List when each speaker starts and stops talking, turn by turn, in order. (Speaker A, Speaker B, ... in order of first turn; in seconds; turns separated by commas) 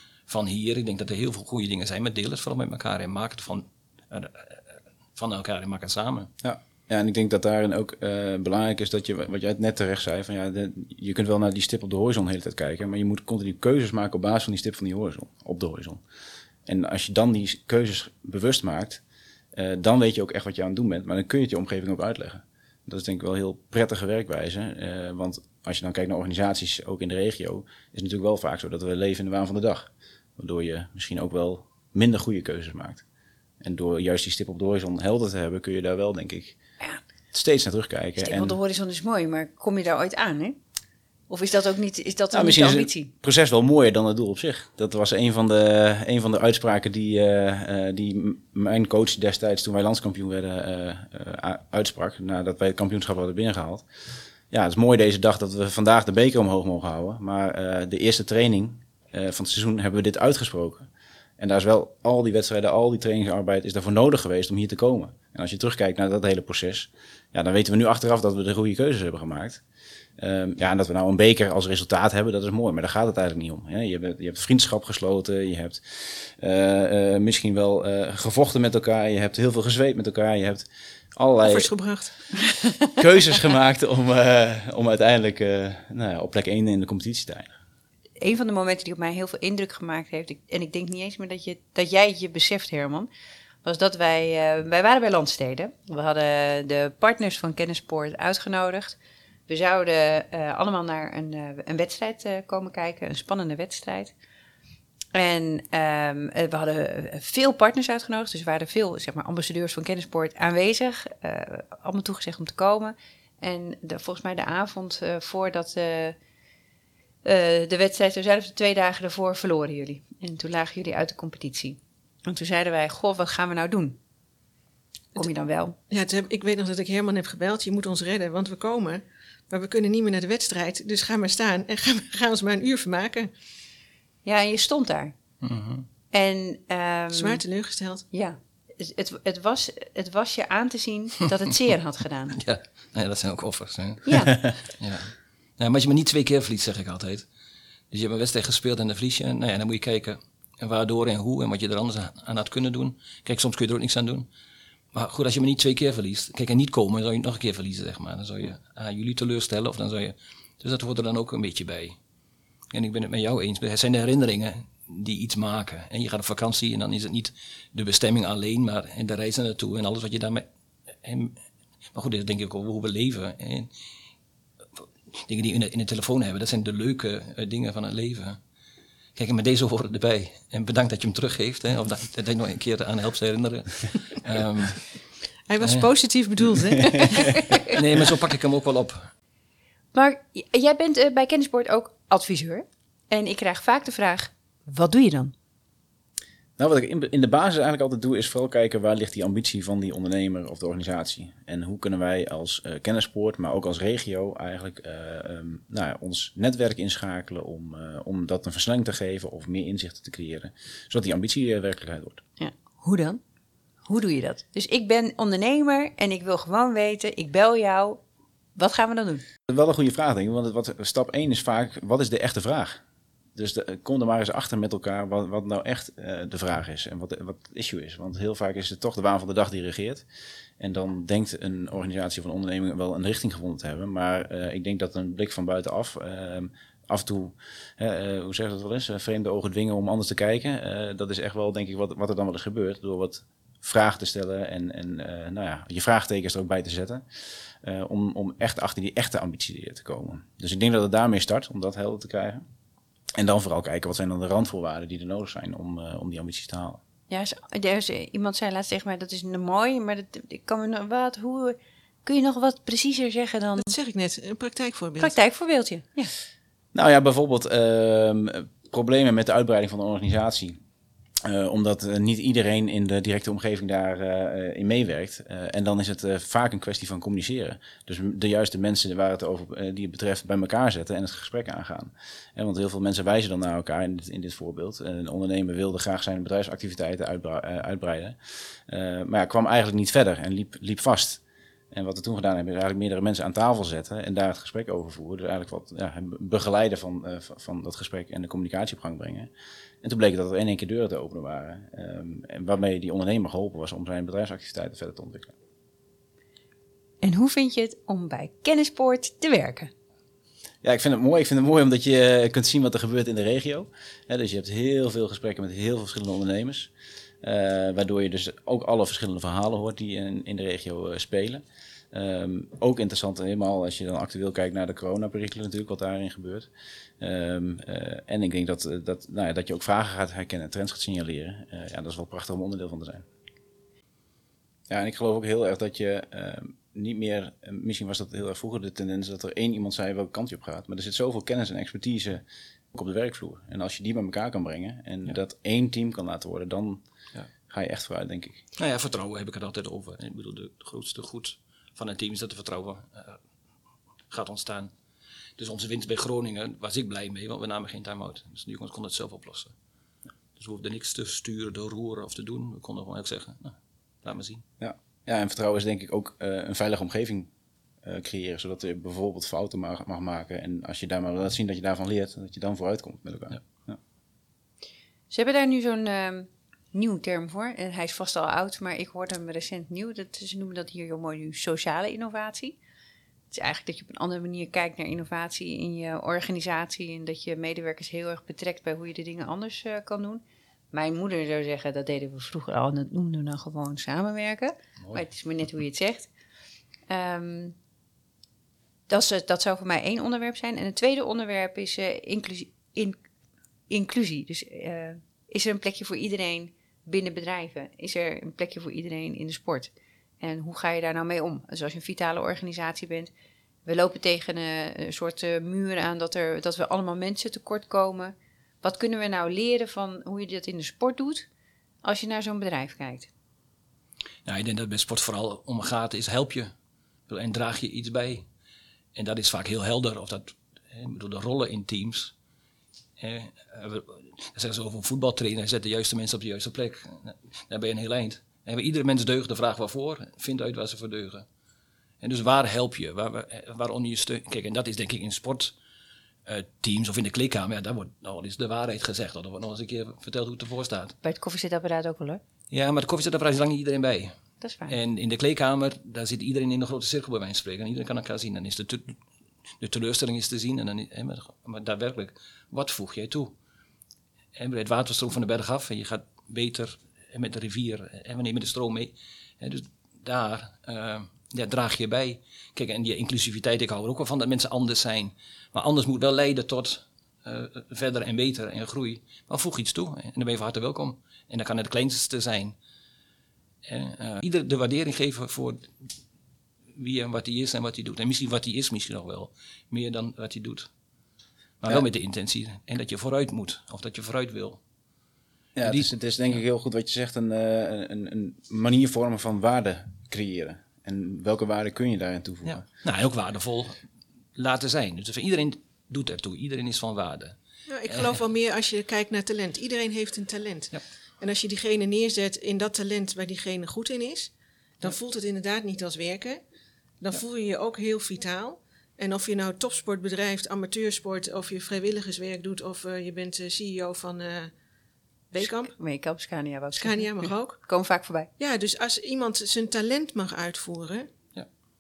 Speaker A: 0.3-6.3, Speaker B: 6.4-16.0, Speaker B: 16.6-19.0, Speaker B: 19.5-33.0, Speaker B: 33.6-36.5, Speaker B: 37.3-38.6, Speaker C: 38.2-40.6, Speaker C: 41.3-43.1, Speaker B: 42.3-53.9, Speaker B: 54.5-60.9, Speaker B: 61.4-69.6, Speaker B: 70.2-81.7, Speaker D: 81.4-82.2, Speaker B: 83.0-87.5, Speaker C: 88.2-93.1, Speaker C: 93.6-99.0, Speaker C: 99.5-104.1, Speaker C: 105.1-116.2, Speaker C: 117.2-124.0, Speaker C: 125.2-125.8, Speaker D: 125.9-133.3, Speaker C: 134.2-135.1, Speaker A: 135.4-135.8, Speaker C: 136.1-137.4, Speaker D: 137.1-138.0, Speaker C: 138.1-142.4, Speaker A: 142.3-147.2, Speaker C: 144.1-144.3, Speaker A: 147.9-154.3, Speaker A: 154.9-162.0, Speaker A: 162.7-170.4, Speaker A: 171.0-171.4, Speaker A: 171.9-173.7, Speaker A: 175.1-178.4, Speaker A: 179.2-184.9, Speaker D: 185.5-187.4, Speaker A: 185.6-185.9, Speaker C: 186.9-187.7, Speaker A: 187.6-189.1, Speaker C: 189.9-195.3, Speaker B: 196.6-212.2, Speaker C: 212.4-213.2, Speaker C: 213.8-218.0, Speaker C: 218.6-219.2, Speaker B: 219.5-222.8, Speaker B: 223.3-230.0, Speaker B: 230.6-247.0, Speaker B: 247.6-252.4, Speaker B: 253.2-256.8, Speaker C: 257.1-263.7, Speaker D: 263.6-265.1, Speaker C: 265.0-266.1, Speaker B: 266.7-270.6, Speaker B: 271.2-291.2, Speaker B: 291.7-299.3, Speaker B: 299.8-305.3, Speaker C: 307.0-309.7, Speaker B: 310.6-316.7, Speaker B: 317.2-326.5, Speaker B: 327.0-333.1, Speaker B: 334.7-346.8, Speaker B: 347.5-348.4, Speaker A: 348.6-353.2, Speaker A: 354.1-354.7, Speaker A: 355.4-359.5, Speaker A: 360.4-364.4, Speaker B: 364.6-367.3, Speaker B: 367.8-373.8, Speaker C: 375.1-382.6, Speaker C: 383.3-396.1, Speaker C: 396.9-397.5, Speaker C: 398.9-402.9, Speaker C: 403.7-413.1, Speaker C: 413.6-421.3, Speaker C: 421.8-423.1, Speaker A: 424.2-426.5, Speaker A: 427.1-428.2, Speaker A: 428.9-432.1, Speaker A: 433.0-441.2, Speaker A: 442.0-445.5, Speaker A: 446.2-450.9, Speaker C: 451.0-452.2, Speaker A: 452.5-454.1, Speaker C: 454.4-454.7, Speaker A: 454.7-458.9, Speaker A: 459.6-463.3, Speaker A: 464.4-482.6, Speaker A: 483.6-485.9, Speaker A: 486.7-490.7, Speaker A: 491.6-494.6, Speaker B: 495.6-502.6, Speaker A: 495.6-495.9, Speaker A: 502.4-503.8, Speaker A: 504.3-507.4, Speaker D: 507.7-516.4, Speaker A: 507.9-508.2, Speaker D: 517.0-524.5, Speaker D: 525.3-525.7, Speaker C: 525.4-528.3, Speaker D: 526.7-527.6, Speaker D: 528.4-531.1